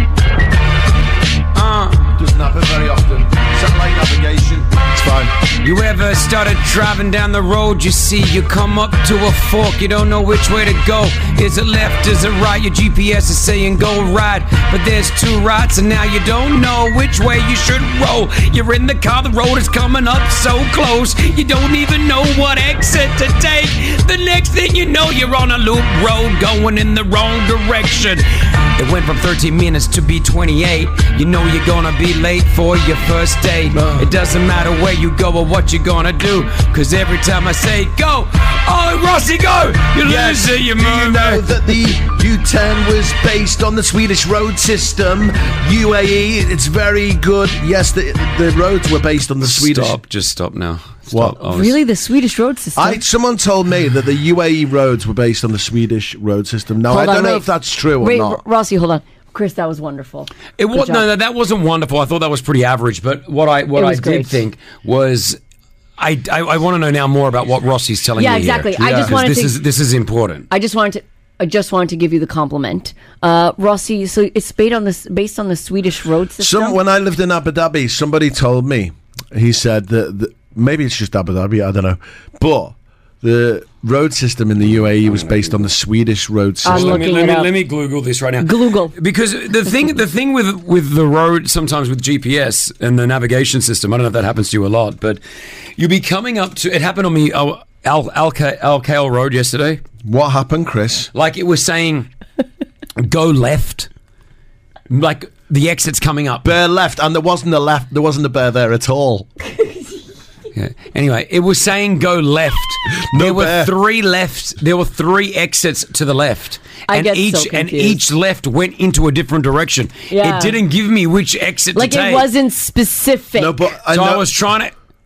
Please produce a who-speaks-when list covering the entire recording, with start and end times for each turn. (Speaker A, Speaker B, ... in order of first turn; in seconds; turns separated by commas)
Speaker A: 1.5-2.2, Speaker B: 2.2-5.3, Speaker A: 5.6-41.5, Speaker B: 33.7-34.1, Speaker B: 40.0-50.0, Speaker A: 49.5-51.8, Speaker B: 51.1-51.4, Speaker C: 51.4-53.0, Speaker B: 52.8-58.4, Speaker C: 56.9-61.0, Speaker A: 60.6-65.4, Speaker C: 63.8-64.4, Speaker A: 66.0-70.5, Speaker C: 68.2-69.6, Speaker B: 68.8-69.2, Speaker C: 70.5-76.8, Speaker B: 76.4-87.1, Speaker C: 86.6-87.5, Speaker A: 86.7-95.2, Speaker C: 88.4-88.9, Speaker A: 95.8-99.8, Speaker B: 100.0-101.1, Speaker A: 101.1-102.1, Speaker A: 103.0-103.9, Speaker A: 104.9-106.5, Speaker B: 106.4-109.3, Speaker C: 109.5-109.8, Speaker A: 110.5-122.3, Speaker B: 113.1-113.7, Speaker C: 116.9-118.0, Speaker C: 120.1-120.5, Speaker C: 121.8-123.6, Speaker B: 123.4-124.3, Speaker A: 123.9-124.7